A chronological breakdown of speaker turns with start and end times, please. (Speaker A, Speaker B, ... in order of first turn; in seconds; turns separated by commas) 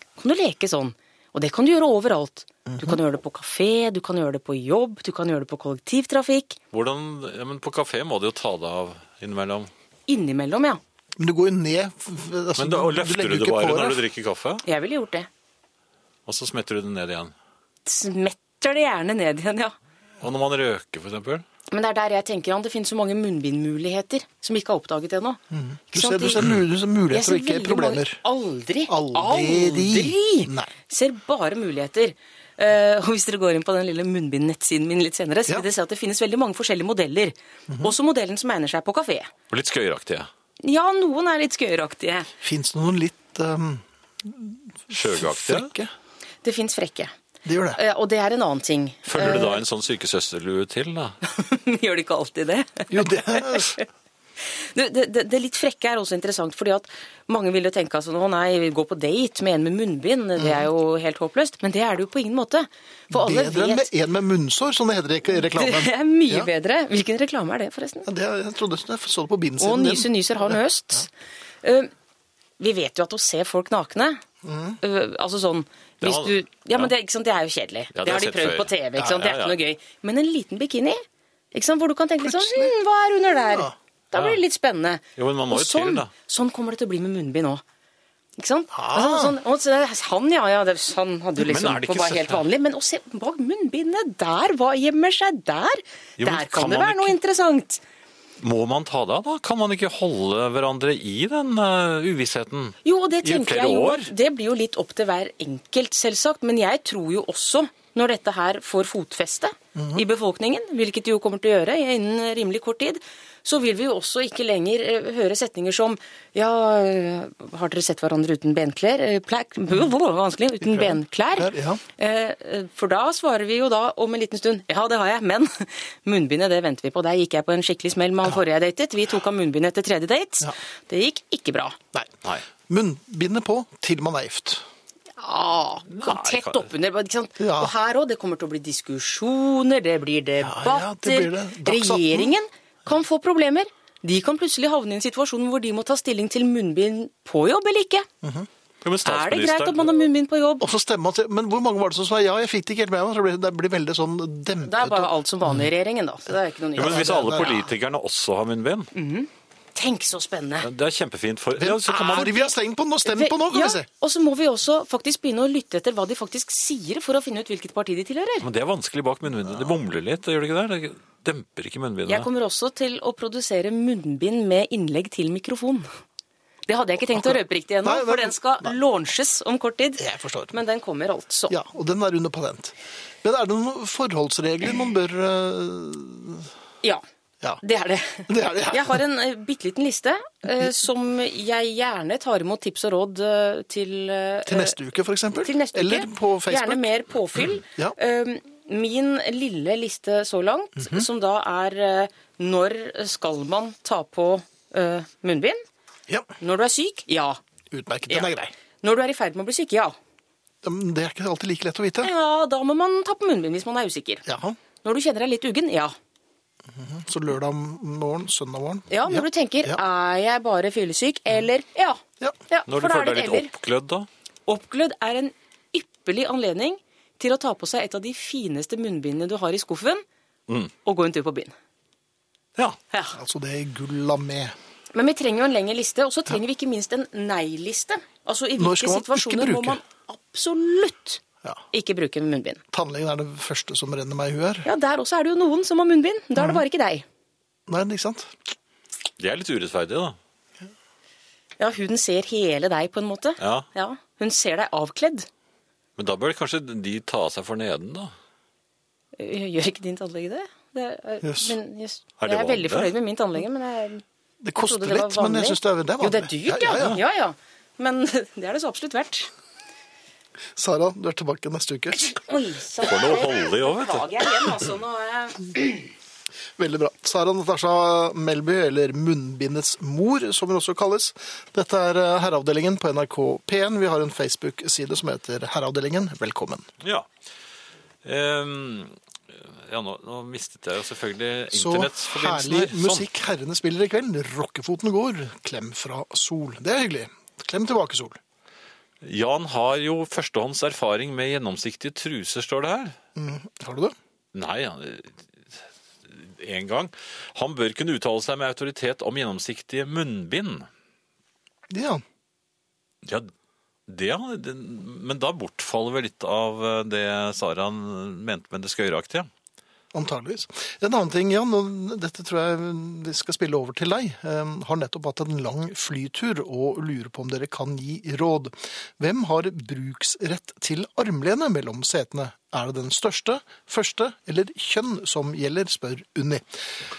Speaker A: 0.2-6.6, Speaker B: 2.6-3.0, Speaker C: 6.7-9.7, Speaker A: 10.1-10.8, Speaker B: 11.2-14.0, Speaker C: 12.6-14.6, Speaker A: 14.7-15.3, Speaker C: 16.2-17.3, Speaker A: 17.9-19.7, Speaker C: 20.2-21.4, Speaker A: 21.7-25.4, Speaker B: 25.5-28.2, Speaker A: 25.9-26.5, Speaker A: 27.1-39.3, Speaker B: 28.9-30.7, Speaker C: 39.5-40.3, Speaker A: 40.6-42.3, Speaker B: 42.4-45.9, Speaker C: 44.9-45.7, Speaker A: 46.4-47.1, Speaker B: 47.4-47.8, Speaker A: 47.7-49.6, Speaker C: 49.1-51.2, Speaker A: 51.2-53.8, Speaker B: 52.9-53.8, Speaker A: 54.4-63.9, Speaker B: 60.4-60.6, Speaker B: 63.1-66.5, Speaker A: 65.4-68.1, Speaker B: 68.0-70.6, Speaker A: 69.6-71.1, Speaker A: 71.6-71.9, Speaker A: 72.6-74.2, Speaker B: 74.4-74.8, Speaker A: 74.8-81.0, Speaker C: 76.0-76.9, Speaker C: 77.9-79.6, Speaker A: 81.5-87.6, Speaker B: 82.2-82.7, Speaker C: 84.1-84.4, Speaker C: 85.2-86.1, Speaker A: 88.4-97.8, Speaker B: 88.7-89.3, Speaker C: 91.4-92.5, Speaker C: 96.2-97.2, Speaker C: 98.4-104.1, Speaker A: 102.8-131.8, Speaker B: 109.7-110.0, Speaker B: 120.6-121.8, Speaker B: 132.7-134.7, Speaker A: 135.2-148.1, Speaker C: 135.9-136.7, Speaker B: 137.4-137.7, Speaker B: 140.4-142.3, Speaker B: 148.2-148.5, Speaker C: 148.8-150.0, Speaker A: 149.0-150.7, Speaker B: 150.6-155.7, Speaker A: 154.7-157.6, Speaker C: 156.7-158.9, Speaker B: 156.8-157.6, Speaker A: 158.9-160.7, Speaker C: 160.6-162.4, Speaker B: 161.6-163.8, Speaker A: 162.2-162.5, Speaker A: 163.0-168.5, Speaker C: 168.4-172.3, Speaker A: 172.1-175.9, Speaker A: 176.7-181.5, Speaker B: 177.1-178.7, Speaker B: 180.0-180.5, Speaker B: 181.5-186.5, Speaker A: 187.6-194.7, Speaker B: 188.3-189.0, Speaker B: 194.4-196.9, Speaker A: 195.4-205.6, Speaker B: 200.8-201.1, Speaker A: 206.4-207.4, Speaker B: 207.7-208.5, Speaker A: 208.8-209.9, Speaker B: 210.6-212.1, Speaker A: 212.0-214.2, Speaker B: 214.2-214.6, Speaker A: 214.8-215.9, Speaker B: 216.7-219.8, Speaker A: 218.9-223.5, Speaker C: 222.7-224.1, Speaker A: 224.5-230.0, Speaker C: 230.5-230.7, Speaker A: 230.8-231.5, Speaker A: 232.9-233.2, Speaker B: 233.1-234.5, Speaker A: 234.9-242.6, Speaker B: 238.6-239.8, Speaker B: 242.7-244.7, Speaker A: 244.6-247.0, Speaker B: 247.7-248.3, Speaker C: 249.2-250.2, Speaker A: 251.6-255.3, Speaker C: 253.4-253.7, Speaker C: 256.0-258.1, Speaker A: 259.2-264.0, Speaker B: 261.2-261.6, Speaker C: 262.2-262.9, Speaker B: 264.4-267.0, Speaker A: 264.6-269.3, Speaker B: 270.6-272.1, Speaker A: 272.0-275.9, Speaker C: 272.8-274.5, Speaker B: 276.6-286.7, Speaker C: 286.8-287.1, Speaker C: 288.0-293.1, Speaker B: 291.5-298.2, Speaker C: 299.0-303.0, Speaker B: 303.1-303.9, Speaker C: 304.3-310.7, Speaker B: 311.7-312.0, Speaker C: 313.0-313.3, Speaker C: 313.9-319.3, Speaker B: 319.9-336.4